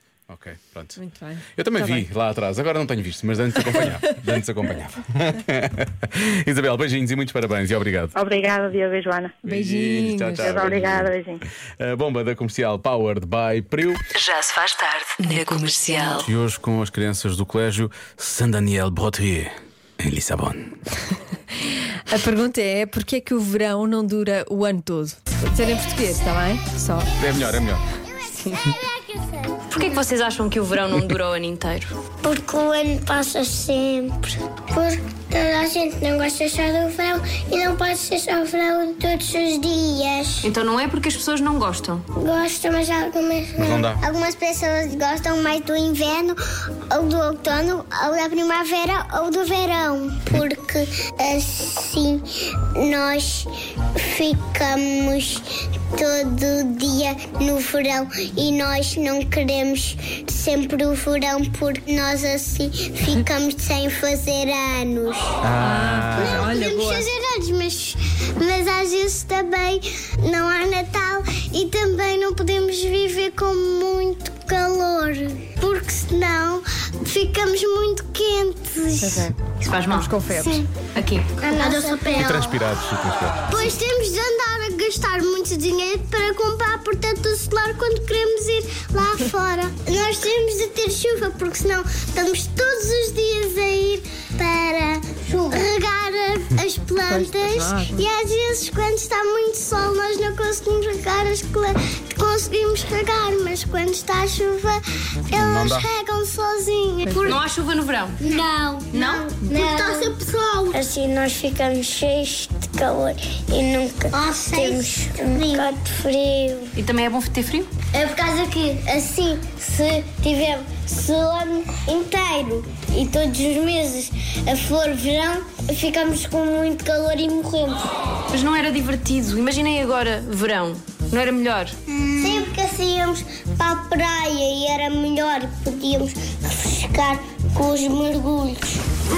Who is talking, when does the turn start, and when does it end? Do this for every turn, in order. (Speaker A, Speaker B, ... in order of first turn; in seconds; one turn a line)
Speaker A: 0.3-1.0
Speaker B: 1.0-2.1
Speaker A: 1.6-8.1
Speaker C: 8.2-9.4
Speaker A: 9.4-14.0
Speaker B: 9.4-10.6
Speaker C: 10.4-11.4
Speaker D: 14.2-16.3
Speaker A: 16.1-20.7
Speaker B: 21.6-27.1
Speaker A: 27.2-27.8
Speaker E: 28.1-29.7
Speaker B: 28.4-28.7
Speaker F: 29.7-32.0
Speaker E: 32.2-40.4
Speaker F: 40.4-42.0
Speaker E: 42.2-46.4
Speaker A: 43.6-44.1
Speaker E: 46.9-65.4
Speaker A: 65.4-66.5
Speaker B: 65.6-67.1
Speaker E: 66.2-79.3
Speaker B: 79.0-80.6
Speaker F: 79.6-81.4
Speaker E: 81.4-82.5
Speaker A: 82.1-83.5
Speaker E: 83.5-107.4
Speaker B: 97.0-98.1
Speaker A: 105.3-105.9
Speaker B: 107.0-107.4
Speaker F: 107.2-108.4
Speaker E: 108.2-116.7
Speaker F: 108.9-109.4
Speaker F: 115.3-115.7
Speaker F: 116.8-117.7
Speaker E: 117.9-127.9
Speaker F: 128.3-131.8
Speaker E: 132.2-138.8